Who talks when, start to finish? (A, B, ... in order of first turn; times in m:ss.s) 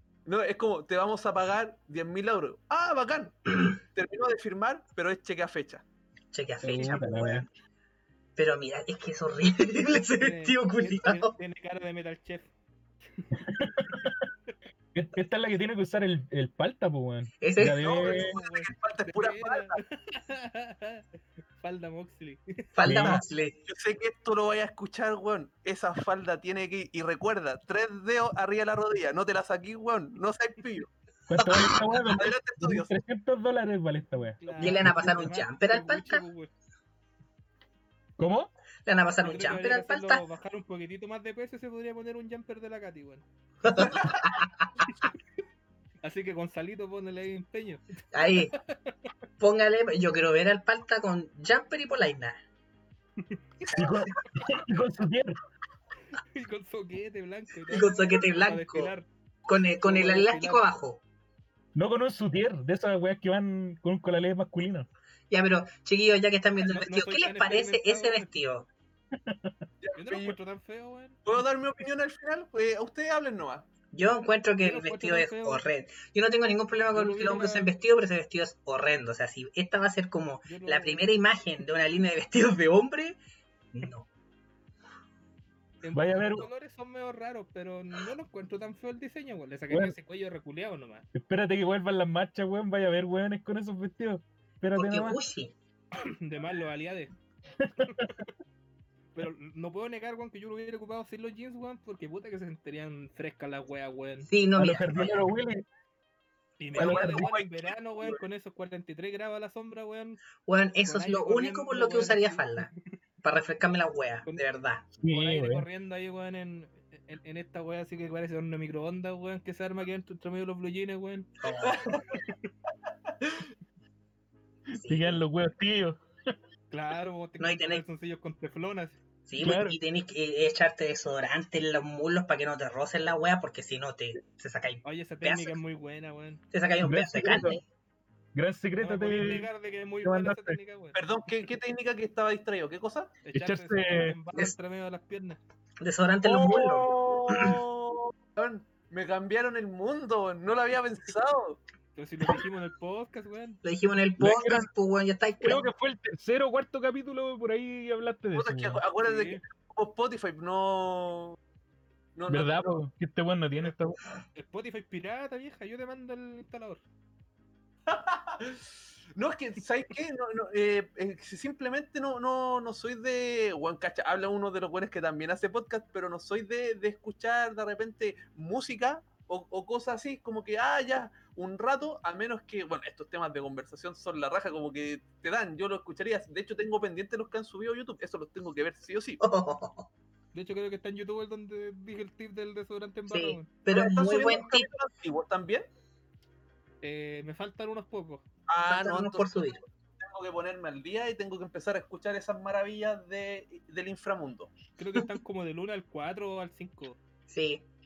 0:00.3-0:05.8 A
0:06.3-0:07.5 B
0:06.6-0:07.5 C
0:08.4-0:11.3 B
0:10.2-0:12.5 D
0:13.4-0:14.2 C
0:14.9-0:18.3 C
0:17.4-0:18.0 B
0:17.8-0:19.8 A
0:18.0-0:21.0 D
0:21.6-0:22.6 D
0:22.8-0:23.6 B
0:22.8-0:23.2 C
0:23.7-0:30.9 A
0:31.3-0:35.1 C
0:31.4-0:31.7 B
0:32.0-0:32.9 A
0:34.4-0:36.5 D
0:34.5-0:36.2 B
0:38.2-0:38.5 C
0:38.8-0:40.2 B
0:39.2-0:43.2 D
0:43.6-0:44.7 B
0:46.0-0:49.0 D
0:48.1-0:48.6 B
0:49.4-0:52.4 B
0:53.7-0:54.1 B
0:53.7-0:55.4 C
0:56.2-0:59.1 D
0:57.7-0:58.9 B
0:59.5-1:01.0 B
0:59.8-1:00.6 D
1:01.8-1:04.9 C
1:05.3-1:08.7 B
1:06.6-1:08.3 D
1:09.2-1:09.5 C
1:09.8-1:10.4 A
1:10.0-1:11.2 D
1:11.3-1:13.7 A
1:13.9-1:23.2 B
1:14.6-1:15.6 D
1:16.9-1:17.7 D
1:20.5-1:21.1 D
1:23.7-1:24.1 B
1:25.8-1:31.1 D
1:25.9-1:26.5 C
1:31.1-1:35.2 C
1:34.8-1:35.6 B
1:36.0-1:37.1 D
1:37.8-1:38.1 C
1:39.2-1:44.3 D
1:44.3-1:45.3 B
1:44.6-1:45.7 C
1:46.6-1:50.2 D
1:46.7-1:47.3 C
1:46.8-1:48.2 A
1:50.5-1:52.7 B
1:50.8-1:52.7 D
1:53.2-1:54.9 B
1:55.0-1:55.7 C
1:55.1-2:01.3 D
2:01.4-2:01.9 B
2:02.1-2:02.5 D
2:04.8-2:05.2 B
2:04.8-2:06.0 C
2:06.7-2:09.0 D
2:07.4-2:07.8 B
2:09.3-2:15.6 B
2:09.4-2:09.8 C
2:14.8-2:16.4 D
2:16.5-2:17.6 B
2:16.8-2:17.6 C
2:18.4-2:19.5 C
2:18.8-2:21.0 D
2:20.0-2:20.6 C
2:21.0-2:23.1 A
2:23.2-2:25.4 D
2:23.3-2:24.2 C
2:25.8-2:27.6 B
2:26.2-2:31.6 A
2:32.0-2:33.6 D
2:33.6-2:35.7 B
2:34.2-2:34.7 C
2:35.4-2:38.8 C
2:38.3-2:41.4 A
2:39.0-2:39.4 D
2:42.2-2:42.7 A
2:42.3-2:44.0 C
2:44.4-2:46.8 D
2:47.9-2:48.6 A
2:49.2-3:09.2 A
3:09.2-3:09.9 B
3:10.3-3:13.5 D
3:13.1-3:14.7 B
3:13.7-3:15.7 A
3:16.8-3:18.2 D
3:18.5-3:24.5 A
3:18.7-3:19.6 B
3:24.8-3:27.0 D
3:27.3-3:27.6 B